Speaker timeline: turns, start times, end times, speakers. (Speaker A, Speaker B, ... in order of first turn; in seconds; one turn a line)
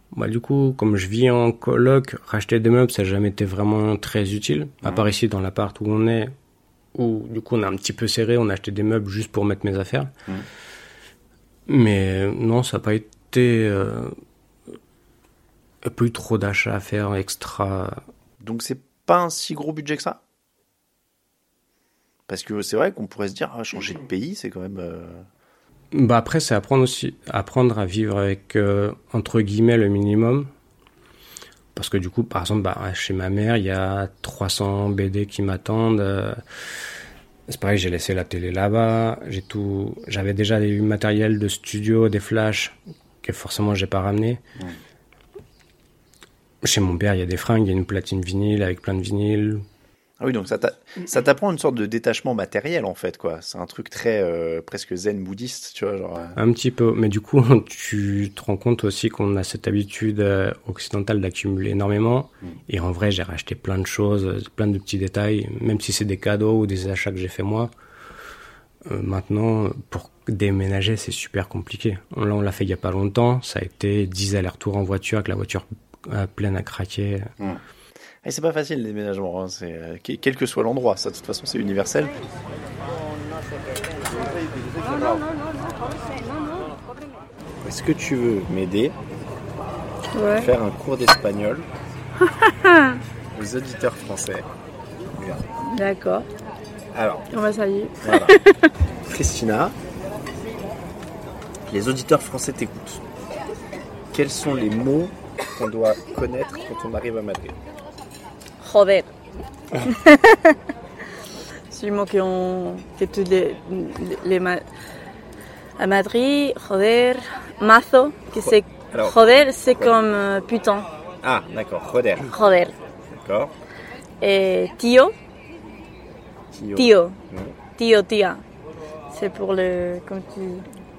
Speaker A: 0.1-6.3
Speaker A: 6.9-10.1
Speaker A: 11.7-14.1
Speaker A: 15.8-18.0
Speaker B: 18.4-20.2
Speaker B: 22.3-25.2
Speaker A: 25.9-30.5
Speaker A: 31.7-36.8
Speaker A: 37.5-44.4
Speaker A: 46.6-49.6
Speaker B: 50.2-56.3
Speaker A: 56.3-67.7
Speaker A: 68.8-77.3
Speaker B: 78.2-82.1
Speaker B: 87.6-89.0
Speaker C: 90.1-90.5
Speaker B: 90.3-91.7
Speaker C: 92.2-93.0
Speaker B: 93.3-94.5
Speaker B: 95.1-95.5
Speaker C: 95.6-96.3
Speaker B: 96.9-97.3
Speaker C: 97.3-98.7
Speaker B: 98.0-98.4
Speaker B: 99.0-99.7
Speaker B: 101.7-103.0
Speaker B: 104.1-107.6
Speaker C: 108.6-109.1
Speaker C: 109.8-110.6
Speaker C: 111.7-114.6
Speaker C: 115.8-120.9
Speaker B: 118.4-119.2
Speaker B: 121.2-122.3
Speaker C: 122.3-122.7
Speaker B: 123.1-123.5
Speaker C: 124.2-125.1
Speaker B: 126.5-127.6
Speaker C: 126.7-127.2
Speaker C: 127.8-128.4
Speaker C: 129.1-130.7